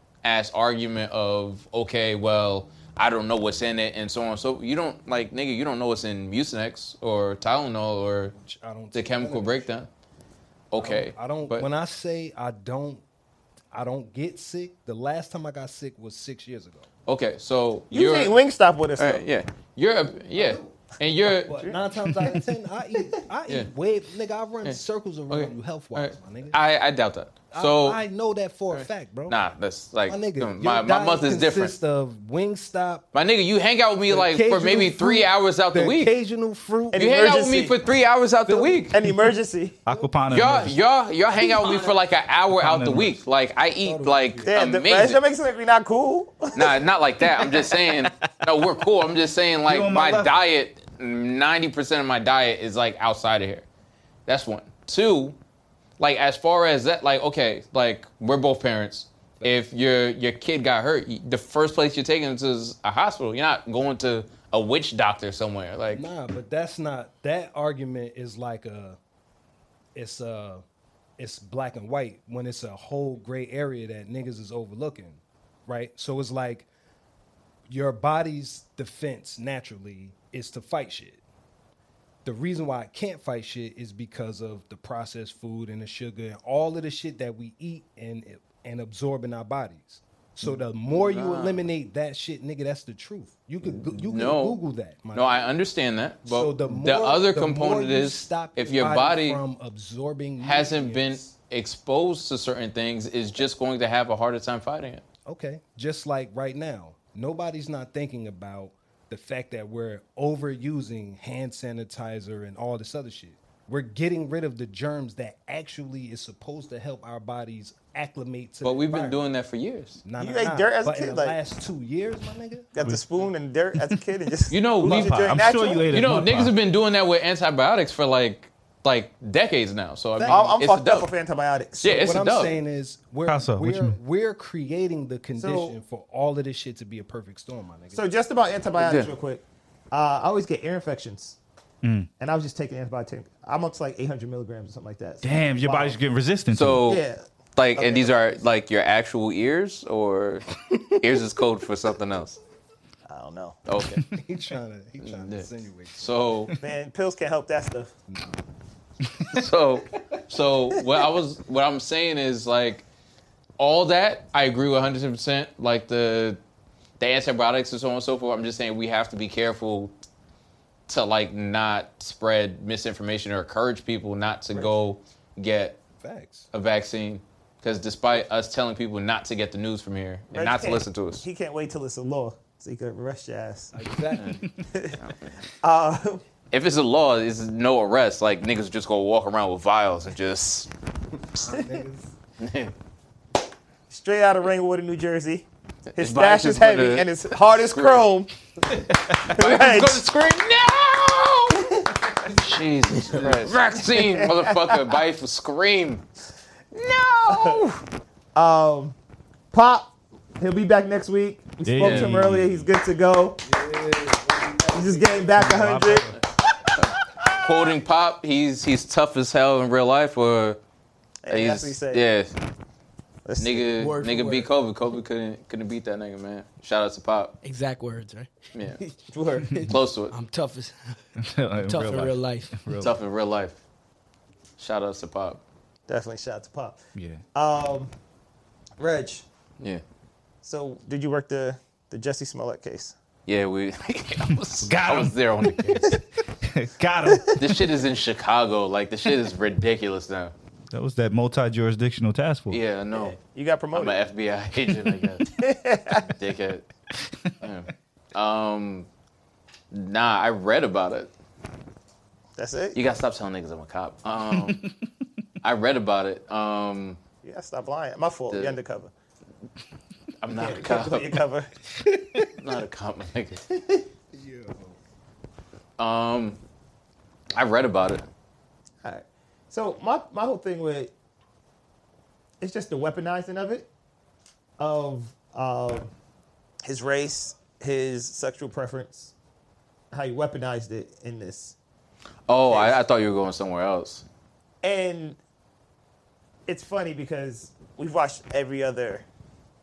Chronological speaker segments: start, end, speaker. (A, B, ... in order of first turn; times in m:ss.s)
0:00.2-0:08.4 A
0:08.4-0:09.7 B
0:08.9-0:09.9 A
0:10.7-0:11.7 A
0:10.8-0:13.0 B
0:13.7-0:16.9 B
0:17.1-0:18.4 A
0:17.9-0:19.2 C
0:19.0-0:21.6 A
0:20.3-0:20.8 B
0:21.4-0:26.6 B
0:21.5-0:22.1 C
0:24.6-0:28.0 A
0:27.5-0:29.4 B
0:28.7-0:31.8 A
0:30.0-0:33.0 B
0:33.1-0:36.1 A
0:34.1-0:37.0 B
0:36.9-0:37.7 C
0:36.9-0:38.9 A
0:38.4-0:38.9 B
0:38.9-0:39.8 C
0:39.8-0:40.8 D
0:40.3-0:45.2 A
0:41.6-0:41.9 E
0:42.5-0:43.2 D
0:43.8-0:44.5 B
0:44.4-0:46.8 C
0:46.5-0:53.6 A
0:49.6-0:50.4 D
0:54.3-0:55.4 A
0:56.0-1:06.0 A
1:05.9-1:09.0 B
1:09.9-1:10.6 B
1:11.2-1:16.7 B
1:17.7-1:21.2 B
1:22.2-1:35.4 B
1:30.4-1:31.6 A
1:33.6-1:34.6 A
1:35.1-1:39.4 A
1:36.2-1:41.3 B
1:40.4-1:45.0 A
1:45.2-1:59.2 B
1:58.6-2:00.0 A
2:00.0-2:02.7 B
2:00.2-2:01.4 C
2:02.7-2:06.1 C
2:04.5-2:11.1 A
2:04.8-2:06.5 D
2:10.2-2:10.6 B
2:10.2-2:12.2 C
2:11.8-2:12.6 A
2:12.0-2:18.0 B
2:13.3-2:14.0 D
2:15.4-2:15.8 C
2:17.9-2:21.4 C
2:18.8-2:19.1 A
2:21.8-2:22.1 D
2:22.2-2:26.0 C
2:25.2-2:26.9 D
2:26.5-2:27.0 A
2:26.9-2:27.2 C
2:27.6-2:32.4 A
2:27.7-2:28.2 C
2:33.1-2:33.6 C
2:33.7-2:34.0 A
2:34.1-2:36.5 B
2:35.0-2:35.5 A
2:36.0-2:36.5 A
2:36.6-2:37.9 C
2:39.3-2:42.8 A
2:43.6-2:46.4 A
2:47.0-2:49.9 A
2:50.9-2:55.8 A
2:56.0-2:56.5 B
2:56.5-3:01.2 A
3:00.3-3:03.7 C
3:03.7-3:04.4 B
3:05.6-3:06.2 C
3:06.5-3:10.7 A
3:11.3-3:12.1 B
3:12.4-3:12.7 A
3:13.9-3:15.4 C
3:16.0-3:18.1 A
3:16.0-3:18.3 C
3:18.7-3:26.0 A
3:19.3-3:20.1 C
3:21.5-3:21.9 C
3:23.4-3:24.9 C
3:26.7-3:27.6 A
3:27.3-3:27.8 C
3:28.3-3:29.0 C
3:29.5-3:33.4 C
3:31.6-3:32.7 D
3:31.8-3:32.2 A
3:33.4-3:35.9 B
3:34.7-3:36.1 C
3:35.4-3:36.1 D
3:37.2-3:37.7 C
3:37.4-3:40.6 A
3:41.2-3:42.1 C
3:41.3-3:42.3 A
3:43.2-3:43.7 C
3:43.4-3:47.4 A
3:43.8-3:44.5 E
3:47.4-3:48.3 E
3:48.5-3:48.8 A
3:49.1-3:49.6 C
3:49.6-3:51.0 E
3:49.6-3:50.1 A
3:51.2-3:52.9 D
3:51.6-3:52.7 E
3:52.8-3:53.6 A
3:54.6-3:55.4 A
3:55.9-3:56.8 C
3:56.9-3:57.2 D
3:57.3-3:57.9 C
3:58.8-3:59.2 C
4:00.4-4:02.9 C
4:03.3-4:06.0 A
4:04.6-4:07.3 D
4:07.4-4:10.3 A
4:10.7-4:12.6 D
4:12.5-4:13.2 A
4:12.9-4:14.0 C
4:13.7-4:15.3 A
4:15.3-4:16.1 C
4:16.1-4:16.7 A
4:17.4-4:18.9 A
4:19.7-4:21.1 A
4:22.4-4:22.8 C
4:22.7-4:24.6 A
4:24.3-4:24.6 D
4:25.4-4:27.0 A
4:27.2-4:28.9 C
4:28.3-4:28.6 A
4:30.2-4:31.2 A
4:30.3-4:31.5 C
4:32.4-4:33.4 A
4:33.5-4:33.9 C
4:34.1-4:34.8 B
4:35.8-4:36.4 A
4:37.3-4:38.1 A
4:38.8-4:40.9 C
4:42.4-4:43.7 C
4:44.6-4:45.9 C
4:46.6-4:49.1 C
4:49.9-4:51.5 C
4:52.3-4:54.0 A
4:52.4-4:52.8 C
4:54.6-4:55.2 C
4:56.5-4:59.0 C